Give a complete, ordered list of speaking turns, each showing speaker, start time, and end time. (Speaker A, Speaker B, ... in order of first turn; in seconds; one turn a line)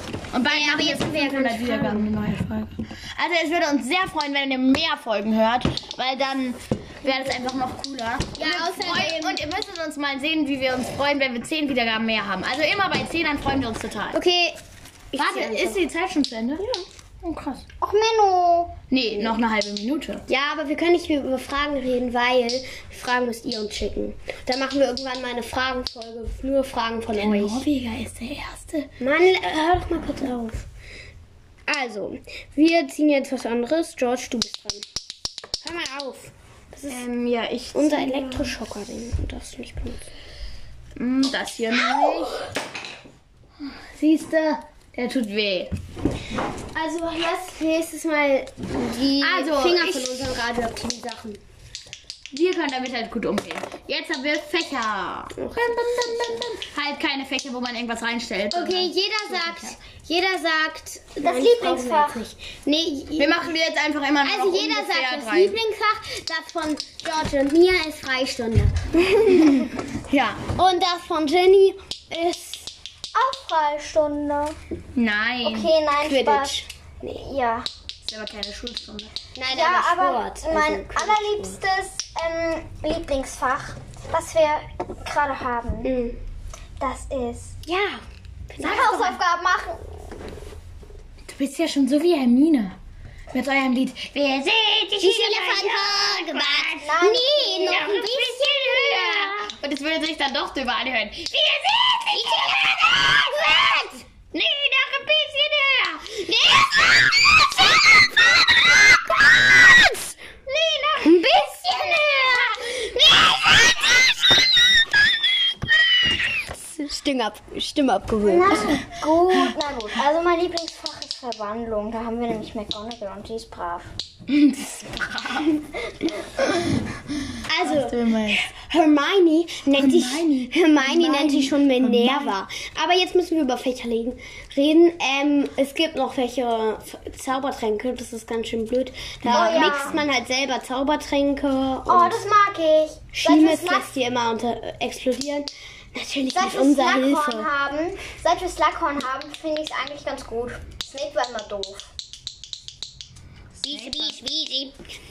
Speaker A: 0.3-14.2
Speaker B: 0.5-2.1
Speaker C: 0.6-1.0
Speaker B: 8.4-9.4
Speaker B: 14.1-14.6
Speaker B: 15.1-15.8
Speaker A: 15.2-16.6
Speaker B: 16.6-16.9
Speaker A: 17.2-17.6
Speaker C: 17.8-18.8
Speaker A: 18.9-20.2
Speaker B: 20.3-27.6
Speaker A: 27.1-28.9
Speaker B: 29.0-30.7
Speaker B: 31.7-34.9
Speaker B: 35.6-37.0
Speaker A: 36.9-38.5
Speaker B: 37.7-40.1
Speaker A: 41.0-42.4
Speaker A: 43.6-45.7
Speaker B: 46.7-51.4
Speaker A: 49.2-50.3
Speaker A: 52.3-59.8
Speaker B: 55.4-56.4
Speaker B: 58.5-63.5
Speaker C: 61.2-62.2
Speaker A: 63.2-65.6
Speaker B: 64.2-69.7
Speaker A: 69.6-70.4
Speaker B: 70.5-72.7
Speaker C: 73.1-74.6
Speaker A: 75.0-75.7
Speaker C: 75.4-76.6
Speaker B: 76.0-77.2
Speaker C: 77.2-77.7
Speaker A: 78.0-79.1
Speaker B: 79.4-81.6
Speaker C: 79.5-85.9
Speaker B: 85.8-86.2
Speaker C: 86.8-87.6
Speaker B: 87.7-89.1
Speaker C: 88.6-89.8
Speaker A: 91.3-92.8
Speaker A: 93.3-103.8
Speaker C: 95.0-99.3
Speaker B: 95.1-99.1
Speaker C: 102.4-103.8
Speaker B: 103.5-103.9
Speaker A: 104.3-108.0
Speaker C: 110.5-112.9
Speaker B: 111.0-113.9
Speaker B: 116.4-118.8
Speaker C: 118.2-123.9
Speaker A: 124.3-125.6
Speaker B: 127.5-142.2
Speaker A: 127.6-128.4
Speaker A: 129.7-132.3
Speaker A: 139.2-140.0
Speaker C: 139.3-140.0
Speaker C: 141.9-143.9
Speaker B: 143.1-147.5
Speaker C: 146.3-151.9
Speaker C: 153.6-154.8
Speaker A: 153.7-154.2